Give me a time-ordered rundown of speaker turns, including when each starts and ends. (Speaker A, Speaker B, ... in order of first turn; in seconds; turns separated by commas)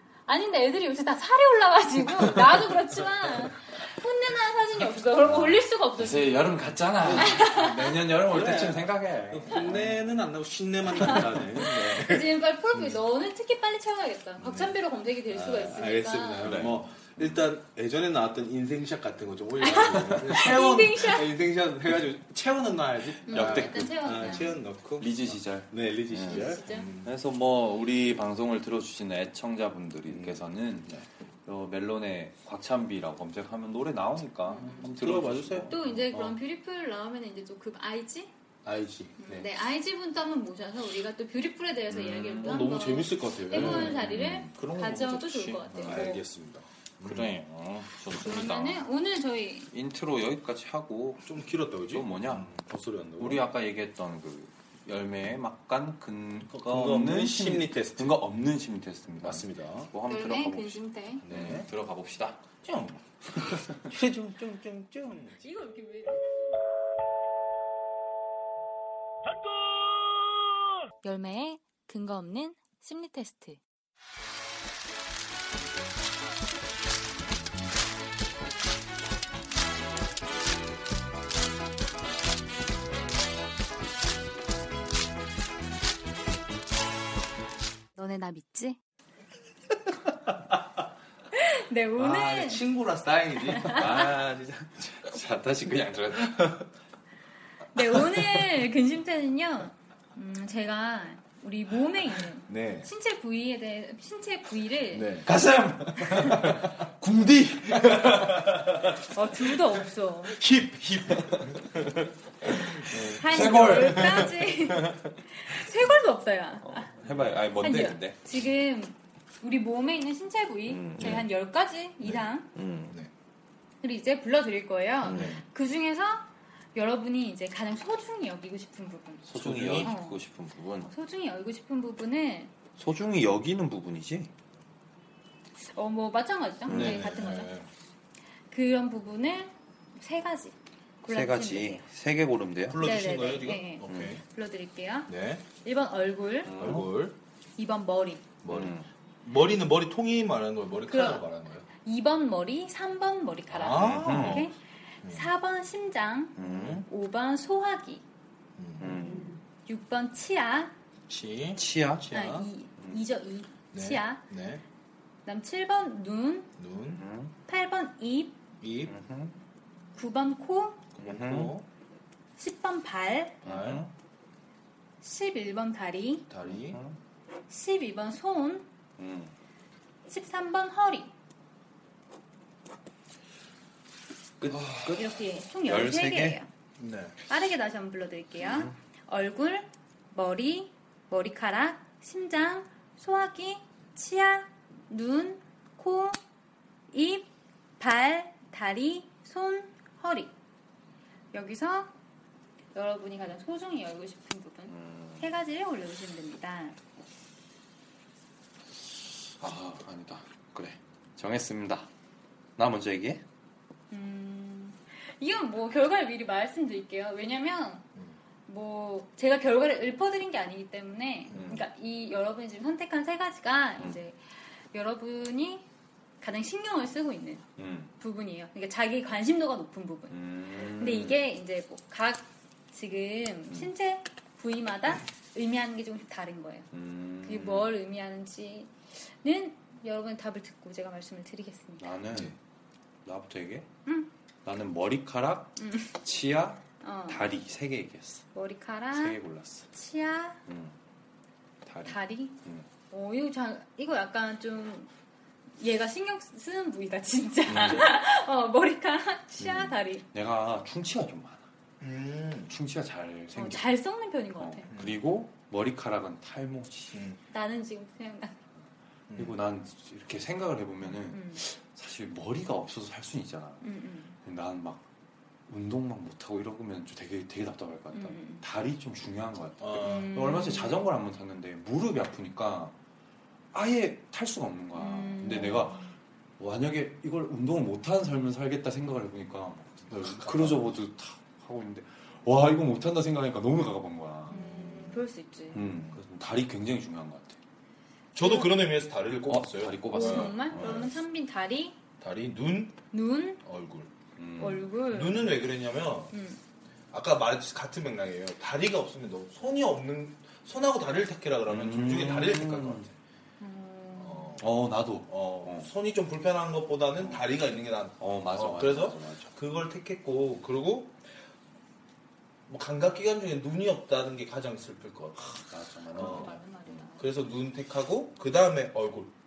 Speaker A: 0.3-6.5, Speaker B: 5.2-9.9, Speaker A: 7.1-7.9, Speaker C: 8.3-13.0, Speaker A: 11.9-16.6, Speaker C: 14.4-14.8, Speaker C: 15.3-27.1, Speaker B: 16.4-16.8, Speaker A: 19.6-21.3, Speaker A: 23.3-24.6, Speaker B: 23.3-36.0, Speaker A: 26.2-26.9, Speaker C: 30.1-31.1, Speaker A: 34.5-34.9, Speaker C: 34.9-36.4, Speaker A: 35.7-38.3, Speaker C: 38.6-39.5, Speaker A: 39.2-46.2, Speaker B: 41.9-42.7, Speaker C: 42.4-44.1, Speaker B: 43.5-46.0, Speaker C: 45.8-47.3, Speaker B: 47.0-48.9, Speaker A: 48.1-49.7, Speaker B: 49.7-52.6, Speaker C: 51.2-53.5, Speaker B: 53.2-62.5, Speaker C: 56.5-58.2, Speaker C: 59.2-59.9, Speaker A: 60.1-61.3, Speaker C: 61.2-61.7, Speaker C: 62.6-65.4, Speaker B: 63.5-63.8, Speaker A: 65.4-66.5, Speaker A: 71.0-73.6, Speaker A: 88.0-88.8, Speaker A: 91.3-92.7, Speaker C: 92.0-94.0, Speaker A: 93.6-93.8, Speaker B: 93.6-96.7, Speaker A: 97.7-105.2, Speaker C: 102.5-102.9, Speaker C: 104.9-106.7, Speaker B: 105.2-108.6, Speaker C: 107.6-108.9, Speaker A: 109.1-110.4, Speaker C: 110.3-111.9, Speaker B: 111.1-111.6, Speaker B: 112.4-114.8, Speaker C: 112.8-114.2, Speaker A: 113.0-116.9, Speaker B: 116.6-118.2, Speaker A: 117.6-122.5, Speaker B: 120.7-121.2, Speaker B: 122.5-123.0, Speaker A: 123.8-129.3, Speaker B: 125.0-125.4, Speaker C: 125.0-125.4, Speaker B: 129.3-130.9, Speaker C: 129.3-129.9, Speaker A: 129.8-130.2, Speaker A: 130.8-132.5, Speaker B: 132.8-134.3, Speaker A: 135.7-137.5, Speaker B: 136.7-137.1, Speaker C: 136.7-137.7, Speaker A: 138.5-141.8, Speaker B: 141.1-142.9, Speaker C: 142.7-144.2, Speaker A: 142.8-146.8, Speaker B: 143.9-144.2, Speaker C: 145.1-145.4, Speaker B: 146.4-146.9, Speaker C: 146.5-147.1, Speaker A: 147.6-148.3, Speaker C: 148.4-151.7, Speaker B: 148.5-148.8, Speaker A: 150.9-158.0, Speaker C: 153.5-154.5, Speaker B: 153.7-154.5, Speaker C: 155.0-155.3, Speaker B: 156.4-156.8, Speaker C: 156.4-156.8, Speaker C: 158.6-159.0, Speaker B: 158.8-159.3, Speaker A: 159.7-160.7, Speaker C: 161.1-162.5, Speaker B: 161.6-162.1, Speaker A: 162.1-164.2, Speaker C: 163.7-164.6, Speaker A: 165.2-166.5, Speaker C: 166.6-167.0, Speaker B: 166.9-167.3, Speaker A: 167.5-168.4, Speaker C: 168.6-168.9, Speaker B: 168.9-169.3, Speaker A: 169.9-170.8, Speaker C: 170.9-171.7, Speaker B: 171.0-171.5, Speaker A: 172.4-173.4, Speaker C: 173.4-173.8, Speaker B: 173.4-173.9, Speaker A: 175.0-176.2, Speaker C: 176.3-176.8, Speaker B: 176.5-177.0, Speaker A: 177.5-178.7, Speaker B: 179.0-179.3, Speaker A: 180.1-181.1, Speaker C: 184.4-185.0, Speaker B: 184.4-185.0, Speaker A: 184.7-186.5, Speaker B: 185.6-186.4, Speaker C: 186.8-187.1, Speaker A: 187.3-196.2, Speaker B: 188.4-188.7, Speaker A: 196.9-200.3, Speaker A: 201.3-201.9, Speaker A: 202.7-206.8, Speaker B: 204.7-205.2, Speaker B: 209.4-211.9, Speaker B: 212.6-213.2, Speaker A: 213.9-217.8, Speaker A: 218.5-224.2, Speaker B: 221.3-221.6, Speaker A: 224.7-225.6, Speaker A: 226.2-227.4, Speaker B: 227.6-227.9, Speaker A: 228.0-236.7, Speaker B: 230.1-231.2, Speaker B: 236.7-237.7, Speaker A: 237.2-241.9, Speaker B: 241.8-242.3, Speaker B: 243.0-243.7, Speaker B: 244.4-248.2, Speaker A: 245.6-245.9, Speaker A: 246.8-247.3, Speaker A: 248.3-249.2, Speaker B: 248.9-249.7, Speaker A: 249.7-250.4, Speaker B: 250.5-250.7, Speaker B: 251.6-252.7, Speaker A: 251.8-252.4, Speaker A: 252.9-254.9, Speaker A: 255.6-260.0, Speaker B: 257.5-257.9, Speaker C: 257.5-257.8, Speaker B: 259.4-261.4, Speaker C: 261.8-262.5, Speaker B: 262.5-263.7, Speaker A: 263.3-264.7, Speaker B: 264.4-267.1, Speaker C: 264.7-265.0, Speaker C: 266.9-267.2, Speaker A: 267.3-268.4, Speaker C: 269.1-269.4, Speaker B: 269.1-273.6, Speaker A: 271.1-271.4, Speaker A: 273.6-274.1, Speaker B: 274.2-274.8, Speaker B: 275.5-282.7, Speaker A: 277.9-278.4, Speaker C: 279.6-280.2, Speaker A: 279.8-280.8, Speaker B: 283.5-295.0, Speaker A: 284.8-285.9, Speaker C: 289.9-290.7, Speaker C: 294.3-295.0, Speaker A: 294.3-295.6, Speaker B: 295.5-297.4, Speaker C: 295.7-296.0, Speaker C: 298.1-300.9, Speaker A: 298.2-298.6, Speaker B: 299.3-300.9, Speaker A: 299.9-301.8, Speaker C: 302.0-302.8, Speaker A: 302.9-303.4, Speaker C: 303.4-303.9, Speaker B: 304.2-304.6, Speaker A: 304.4-305.4, Speaker C: 304.9-306.1, Speaker A: 306.1-306.4, Speaker C: 306.9-312.9, Speaker B: 311.5-312.9, Speaker A: 313.4-314.4, Speaker C: 314.0-314.5, Speaker B: 314.4-315.7, Speaker C: 315.1-320.9, Speaker B: 317.0-317.2, Speaker B: 318.0-319.3, Speaker C: 322.5-325.4, Speaker B: 325.3-326.8, Speaker A: 325.9-327.0, Speaker C: 325.9-326.3, Speaker C: 327.0-329.1